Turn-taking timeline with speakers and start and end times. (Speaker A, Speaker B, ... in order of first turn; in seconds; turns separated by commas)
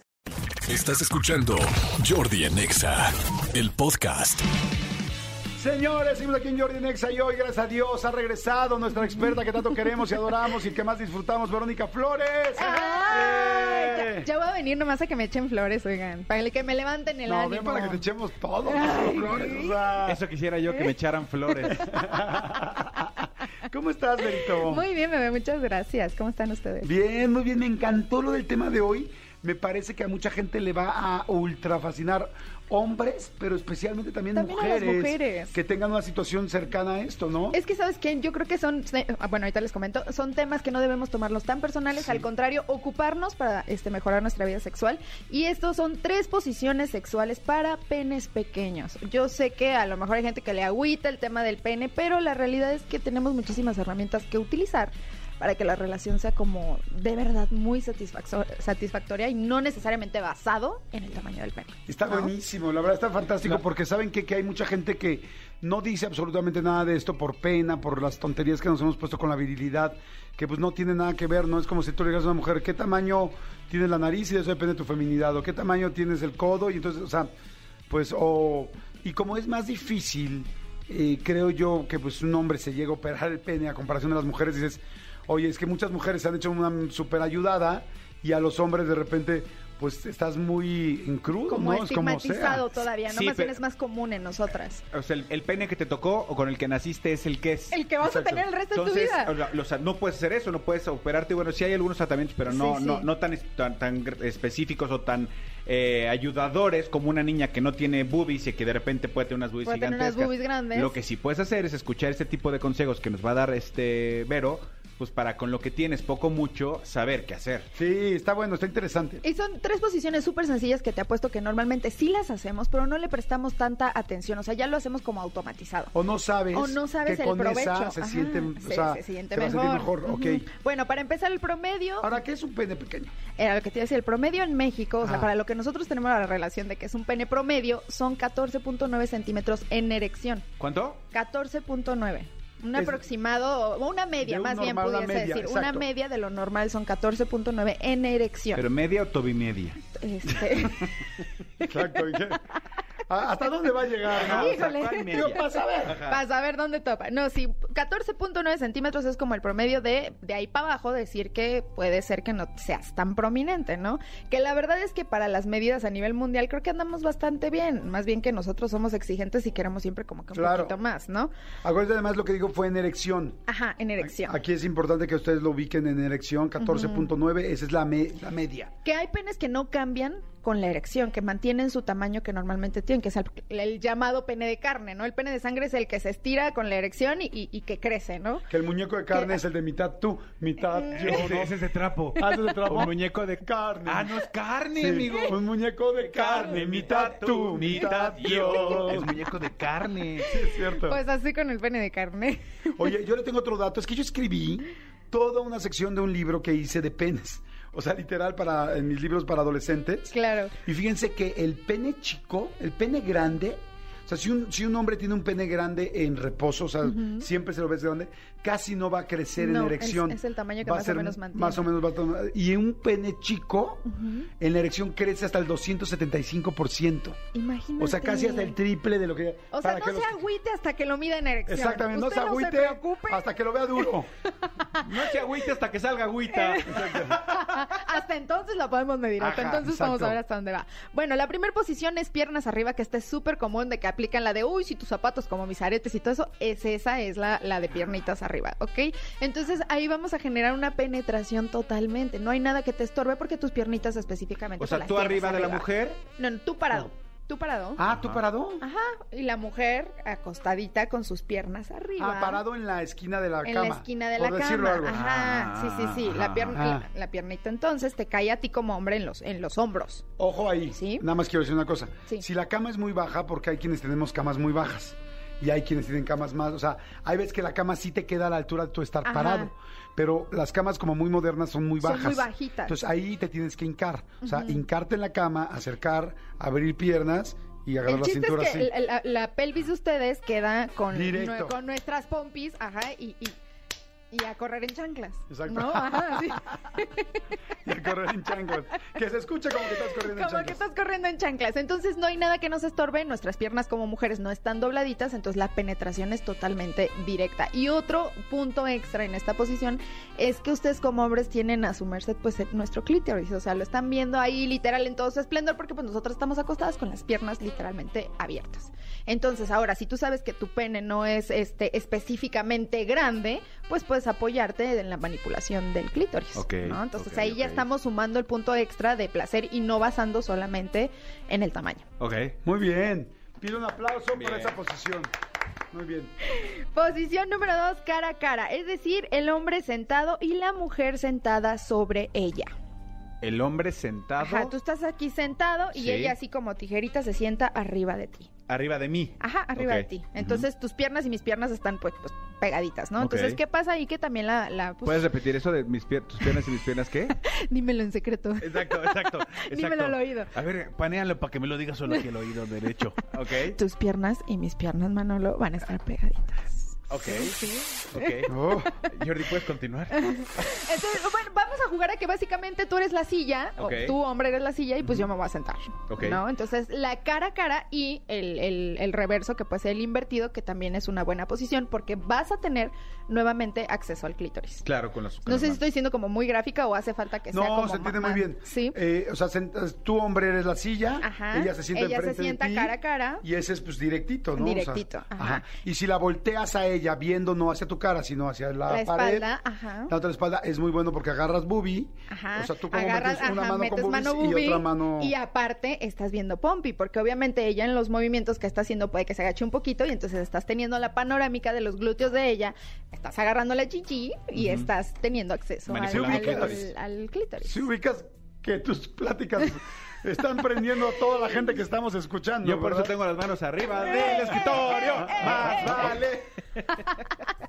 Speaker A: 0.7-4.5, Speaker B: 5.6-14.3, Speaker C: 12.6-18.1, Speaker B: 17.3-20.2, Speaker C: 18.7-19.9, Speaker D: 20.0-21.8, Speaker C: 21.5-23.3, Speaker B: 21.7-23.1, Speaker B: 23.7-24.9, Speaker C: 24.2-26.9, Speaker B: 26.8-37.6, Speaker C: 34.3-35.6, Speaker C: 37.5-62.3, Speaker B: 61.9-77.3, Speaker B: 77.9-92.8, Speaker C: 91.5-94.8, Speaker D: 93.1-93.6, Speaker D: 94.9-97.8, Speaker C: 97.7-99.4, Speaker B: 98.0-98.5, Speaker D: 98.7-117.7, Speaker C: 102.5-103.1, Speaker C: 109.7-111.0, Speaker B: 117.8-119.2, Speaker C: 119.2-125.9, Speaker B: 125.9-130.5, Speaker C: 126.5-132.2, Speaker B: 132.0-133.1, Speaker C: 133.4-140.5, Speaker D: 140.6-141.0, Speaker C: 141.1-148.7, Speaker B: 142.7-143.0, Speaker B: 144.2-145.9, Speaker D: 148.6-149.8, Speaker C: 149.9-150.9, Speaker C: 151.6-152.3, Speaker B: 151.6-152.4, Speaker B: 153.1-156.0, Speaker D: 154.1-156.2, Speaker C: 154.2-155.4, Speaker C: 156.1-171.3, Speaker B: 170.3-170.8, Speaker B: 171.6-173.4, Speaker C: 173.5-174.4, Speaker B: 174.0-178.7, Speaker C: 176.6-177.1, Speaker C: 178.8-188.5, Speaker B: 188.5-191.6, Speaker C: 189.1-189.4, Speaker C: 190.9-191.2, Speaker D: 191.0-195.4, Speaker B: 192.2-194.2, Speaker B: 194.7-199.2, Speaker D: 196.1-200.3, Speaker C: 200.2-202.9, Speaker B: 200.2-201.0, Speaker B: 202.8-210.1, Speaker C: 210.1-210.5, Speaker B: 210.7-223.9, Speaker C: 216.8-217.3, Speaker C: 219.4-221.7, Speaker C: 223.9-224.3, Speaker B: 224.4-227.2, Speaker C: 227.3-228.6, Speaker B: 227.8-230.2, Speaker C: 229.5-235.1, Speaker B: 231.5-234.1, Speaker D: 234.8-237.6, Speaker C: 236.3-257.8, Speaker B: 236.7-237.2, Speaker D: 239.2-240.2, Speaker D: 254.6-256.0, Speaker B: 257.8-258.6, Speaker D: 257.9-258.2, Speaker C: 258.6-262.4, Speaker B: 262.0-265.0, Speaker C: 263.4-270.0, Speaker D: 264.9-266.6, Speaker B: 266.5-266.9, Speaker B: 270.2-288.7, Speaker C: 270.7-271.1, Speaker C: 279.0-279.5, Speaker C: 281.8-282.8, Speaker C: 284.2-284.6, Speaker C: 287.8-293.4, Speaker B: 290.9-291.6, Speaker C: 294.1-297.2, Speaker B: 295.3-296.4, Speaker B: 297.6-300.6, Speaker C: 299.6-331.9, Speaker D: 326.4-327.6, Speaker D: 332.0-332.4, Speaker B: 332.4-335.1, Speaker D: 334.1-334.6, Speaker B: 335.7-336.1, Speaker C: 336.2-342.5, Speaker D: 343.2-344.5, Speaker C: 344.2-348.3, Speaker D: 345.7-346.2, Speaker D: 348.5-350.5, Speaker C: 349.2-355.1, Speaker D: 353.0-353.4, Speaker D: 354.8-357.2, Speaker C: 357.2-360.3, Speaker D: 358.4-363.6, Speaker C: 363.4-368.3, Speaker D: 366.9-367.4, Speaker D: 367.9-368.3, Speaker B: 368.3-368.7, Speaker D: 368.9-370.5, Speaker C: 370.0-384.7, Speaker D: 373.6-373.9, Speaker D: 375.9-376.2, Speaker D: 384.6-385.6, Speaker C: 385.3-388.8, Speaker B: 387.3-399.3, Speaker C: 391.0-393.2, Speaker C: 394.4-395.4, Speaker C: 398.7-399.9, Speaker B: 399.9-405.1, Speaker C: 402.1-417.6, Speaker D: 414.4-414.7, Speaker D: 415.7-416.7, Speaker B: 415.9-416.6, Speaker B: 417.4-423.0, Speaker D: 422.4-427.0, Speaker C: 423.8-426.0, Speaker B: 425.0-426.2